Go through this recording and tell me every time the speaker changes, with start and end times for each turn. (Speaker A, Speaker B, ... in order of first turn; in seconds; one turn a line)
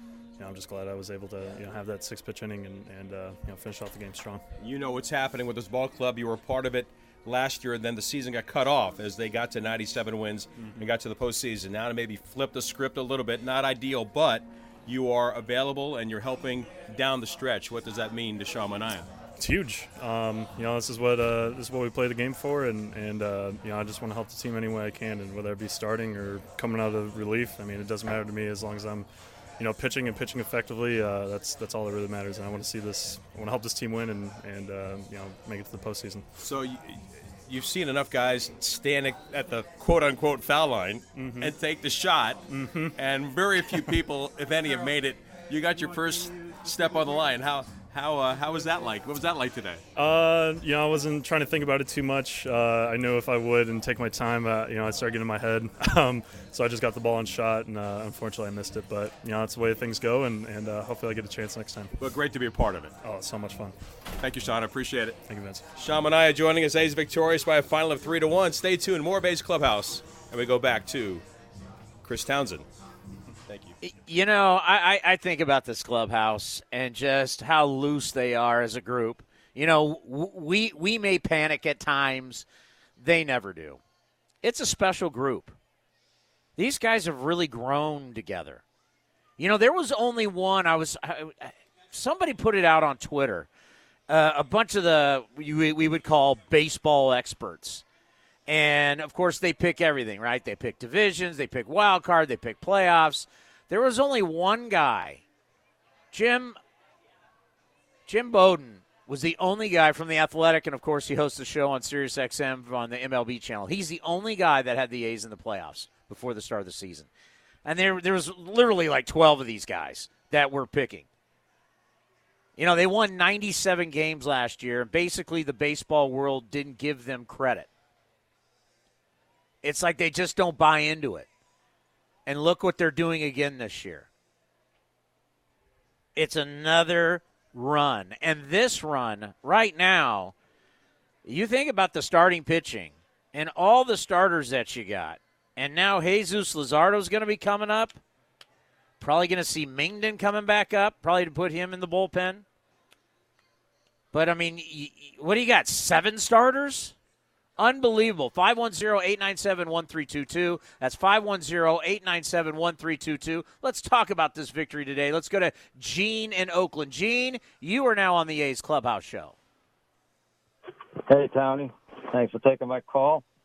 Speaker A: 0.4-4.4
Speaker B: 4.6-19.1
Speaker A: 10.6-10.9
Speaker A: 19.4-29.1
Speaker A: 29.6-36.2
Speaker B: 36.4-42.4
Speaker A: 41.1-41.5
Speaker A: 42.5-43.0
Speaker B: 43.0-49.8
Speaker A: 50.0-62.0
Speaker B: 62.0-62.9
Speaker A: 63.0-63.7
Speaker B: 64.2-65.2
Speaker A: 65.2-65.6
Speaker B: 65.8-71.2
Speaker B: 72.0-72.7
Speaker B: 73.5-73.8
Speaker C: 73.8-82.4
Speaker C: 83.0-83.8
Speaker C: 84.4-85.5
Speaker C: 86.6-88.6
Speaker C: 89.4-93.5
Speaker C: 94.1-97.8
Speaker C: 98.5-105.2
Speaker C: 106.1-106.6
Speaker C: 108.1-117.1
Speaker C: 117.6-121.1
Speaker C: 122.6-127.7
Speaker C: 129.6-131.3
Speaker C: 132.3-134.1
Speaker C: 136.2-140.3
Speaker C: 141.2-148.0
Speaker C: 149.0-152.4
Speaker C: 154.1-156.9
Speaker C: 157.6-169.3
Speaker D: 171.1-173.2